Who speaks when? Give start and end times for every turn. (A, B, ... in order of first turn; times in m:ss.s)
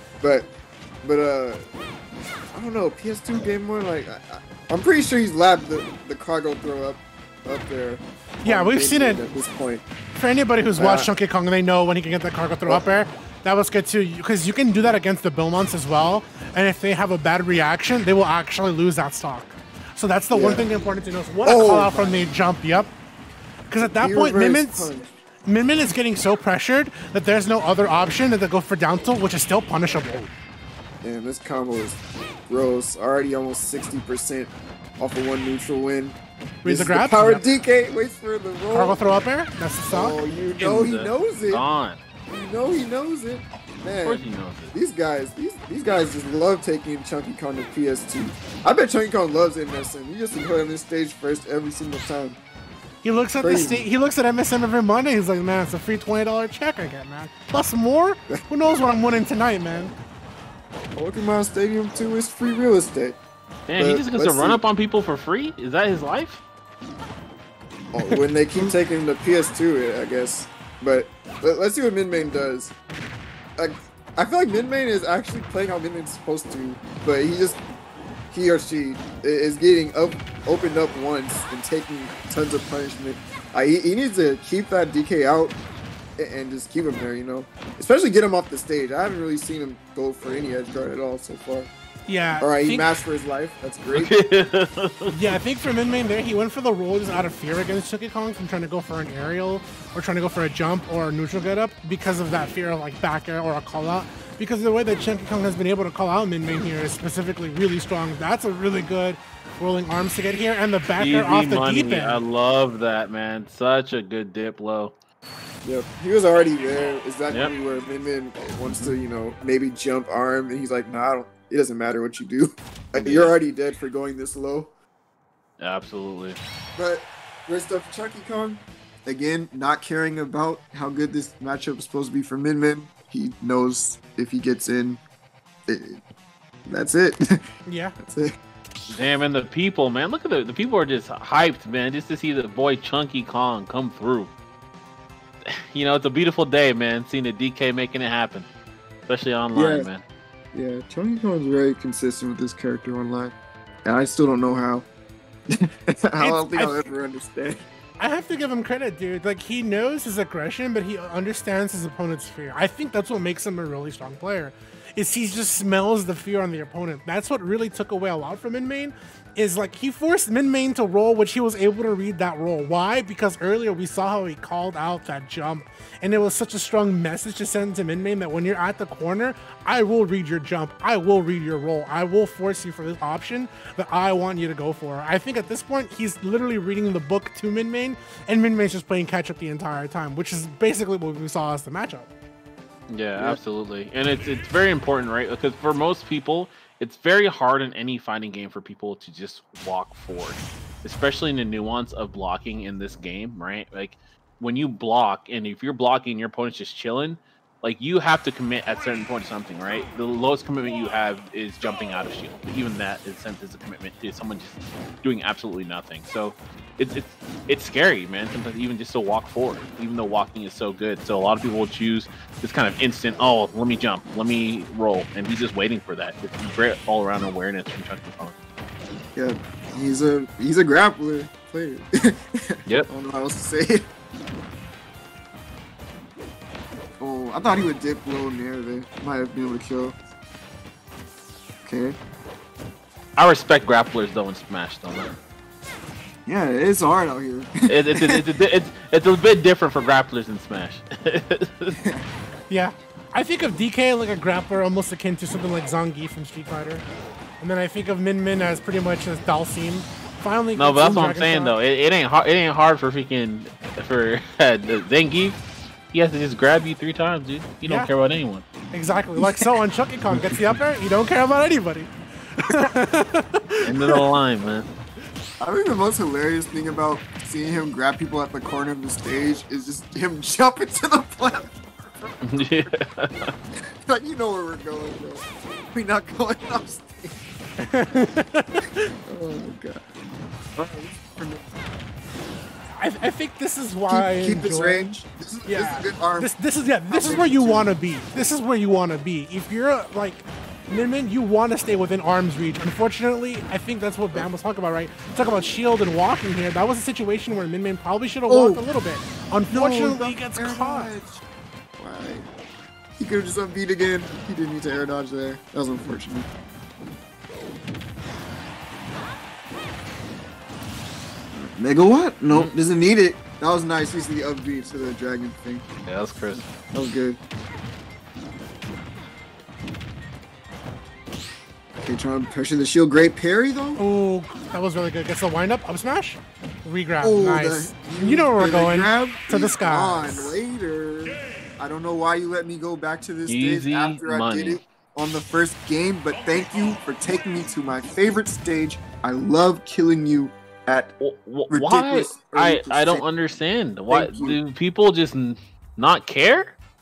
0:00.2-0:00.5 A
0:01.0-0:01.7 A
0:02.5-0:09.8 A
0:08.4-0:09.2 B
0:10.2-0:22.9 B
0:10.8-0:11.1 A
0:20.3-0:20.7 A
0:21.4-0:22.3 A
0:23.7-0:24.9 B
0:23.8-0:25.1 A
0:25.5-0:30.2 B
0:31.0-0:39.0 A
0:36.6-0:37.5 B
0:38.7-0:40.8 B
0:39.9-0:41.6 A
0:40.6-0:42.0 C
0:42.3-0:52.4 A
0:44.0-0:44.8 C
0:53.0-0:59.9 B
0:53.4-0:53.9 A
1:01.0-1:03.2 A
1:03.7-1:06.4 C
1:03.8-1:04.6 A
1:07.9-1:12.8 A
1:08.1-1:08.7 C
1:13.6-1:17.6 A
1:18.3-1:25.6 A
1:26.2-1:31.7 A
1:32.1-1:32.9 B
1:32.4-1:34.2 A
1:33.9-1:35.3 C
1:35.1-1:52.2 B
1:50.9-1:55.0 C
1:55.6-2:04.7 A
1:58.7-1:59.0 C
2:03.0-2:03.4 C
2:05.6-2:06.4 C
2:06.8-2:15.0 A
2:15.7-2:16.0 A
2:16.7-2:17.2 A
2:17.7-2:18.0 B
2:18.0-2:18.3 A
2:18.9-2:24.3 C
2:25.7-2:28.5 C
2:29.1-2:30.0 C
2:29.6-2:29.9 A
2:30.5-2:34.9 A
2:35.6-2:37.6 A
2:36.2-2:36.9 B
2:38.0-3:12.1 B
3:12.9-3:48.4 C
3:13.2-3:13.4 A
3:49.2-3:53.9 A
3:57.0-4:00.0 A
4:01.6-4:02.0 A
4:03.2-4:05.1 C
4:06.3-4:08.2 A
4:07.7-4:11.8 C
4:12.5-4:16.8 B
4:17.4-4:21.6 B
4:20.6-4:25.4 C
4:25.9-4:28.4 C
4:27.6-4:27.9 B
4:28.7-4:34.0 B
4:29.2-4:29.5 A
4:33.7-4:34.7 C
4:35.4-4:42.1 A
4:42.3-4:43.3 C
4:43.9-4:47.2 A
4:47.6-4:48.8 B
4:49.1-4:49.8 A
4:50.6-4:51.5 A
4:52.8-4:54.9 B
4:53.9-4:56.3 A
4:55.5-5:10.9 B
4:56.9-4:57.7 A
5:08.3-5:08.6 A
5:09.5-5:11.2 A
5:11.8-5:12.3 A
5:13.0-5:16.3 A
5:21.3-5:25.7 A
5:25.9-5:26.4 C
5:26.4-5:27.2 A
5:31.8-5:33.8 A
5:33.8-5:40.3 B
5:37.0-5:50.9 A
5:43.3-5:44.6 C
5:51.0-5:56.6 C
5:51.5-5:53.0 A
5:53.9-5:54.4 A